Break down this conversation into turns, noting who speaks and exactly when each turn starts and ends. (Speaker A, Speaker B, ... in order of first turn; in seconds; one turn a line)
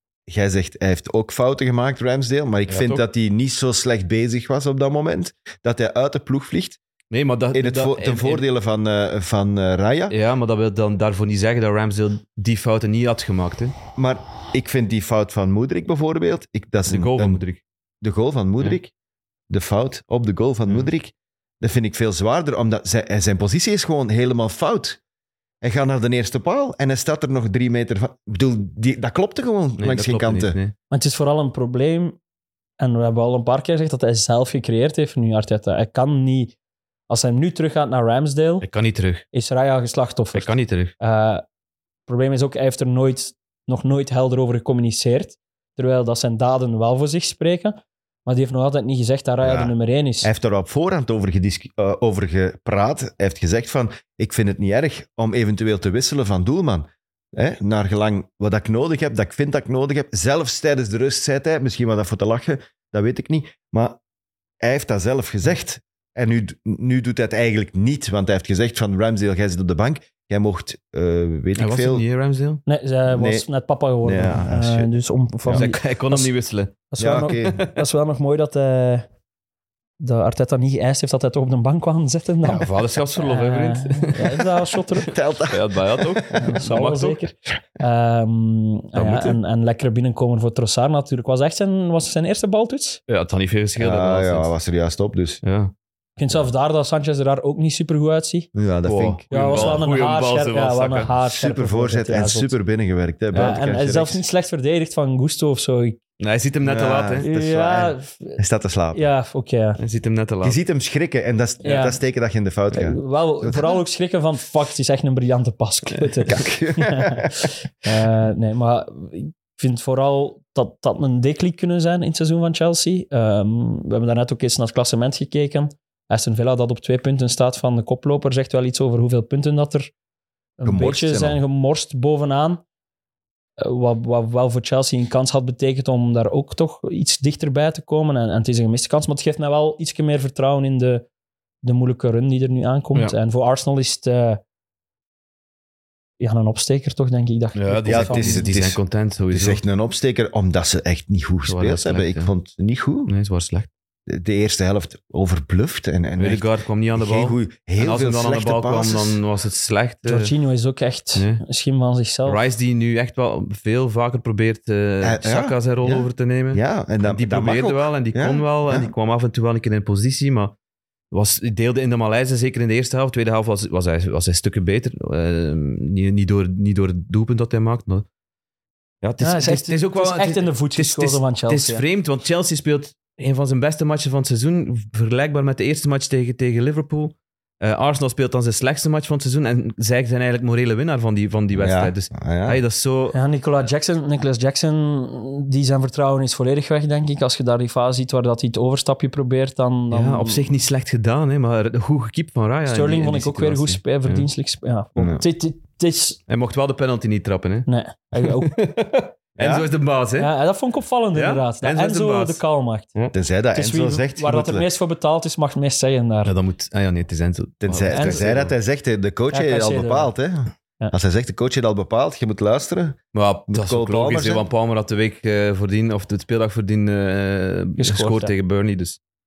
Speaker A: 0.3-6.8
Speaker B: 2.7-3.0
Speaker B: 7.1-8.4
Speaker A: 7.5-10.2
Speaker B: 10.1-13.8
Speaker A: 13.9-17.4
Speaker B: 16.9-17.6
Speaker A: 18.0-18.9
Speaker A: 19.5-25.0
Speaker A: 25.6-30.6
Speaker B: 29.8-30.7
Speaker C: 30.9-32.2
Speaker C: 32.8-36.5
Speaker C: 37.1-38.7
Speaker B: 38.6-39.2
Speaker C: 39.3-41.4
Speaker B: 40.4-40.9
Speaker C: 42.1-50.3
Speaker A: 49.4-64.0
Speaker A: 64.6-72.0
Speaker B: 71.6-72.6
Speaker C: 72.7-76.3
Speaker A: 73.1-73.5
Speaker A: 74.0-74.9
Speaker B: 75.5-77.7
Speaker C: 76.9-79.1
Speaker A: 77.0-77.6
Speaker C: 80.0-85.1
Speaker B: 82.4-84.5
Speaker A: 85.1-86.4
Speaker B: 85.5-87.2
Speaker C: 86.3-93.0
Speaker B: 89.0-89.4
Speaker B: 93.1-94.5
Speaker A: 93.8-95.4
Speaker B: 95.4-95.7
Speaker C: 96.2-98.5
Speaker A: 98.5-99.8
Speaker B: 98.8-101.1
Speaker C: 99.3-102.5
Speaker A: 101.2-104.2
Speaker C: 103.3-106.0
Speaker B: 106.2-107.3
Speaker A: 106.6-109.0
Speaker C: 107.2-108.4
Speaker C: 108.9-109.8
Speaker B: 109.8-110.6
Speaker A: 110.4-113.8
Speaker C: 111.6-112.0
Speaker C: 112.7-129.9
Speaker A: 116.2-117.5
Speaker C: 130.6-132.6
Speaker A: 130.7-131.4
Speaker C: 133.6-141.1
Speaker C: 141.6-144.4
Speaker C: 146.2-148.5
Speaker B: 147.6-149.6
Speaker A: 147.9-153.1
Speaker B: 151.5-152.3
Speaker B: 153.1-153.7
Speaker A: 154.1-159.2
Speaker B: 156.2-160.3
Speaker C: 160.1-162.4
Speaker B: 161.2-161.4
Speaker B: 162.3-170.5
Speaker A: 165.0-168.9
Speaker B: 171.1-178.1
Speaker B: 179.0-193.2
Speaker C: 179.2-181.8
Speaker A: 191.5-192.6
Speaker C: 193.1-200.4
Speaker B: 199.9-204.3
Speaker C: 202.7-206.2
Speaker A: 205.0-205.2
Speaker B: 206.3-207.7
Speaker C: 207.7-208.6
Speaker B: 208.2-210.3
Speaker A: 209.4-209.7
Speaker C: 210.2-212.9
Speaker B: 211.1-212.4
Speaker A: 213.1-214.7
Speaker C: 213.5-216.3
Speaker B: 216.2-218.5
Speaker A: 217.6-224.5
Speaker C: 217.9-218.2
Speaker C: 219.3-220.1
Speaker B: 223.1-229.0
Speaker C: 227.8-228.3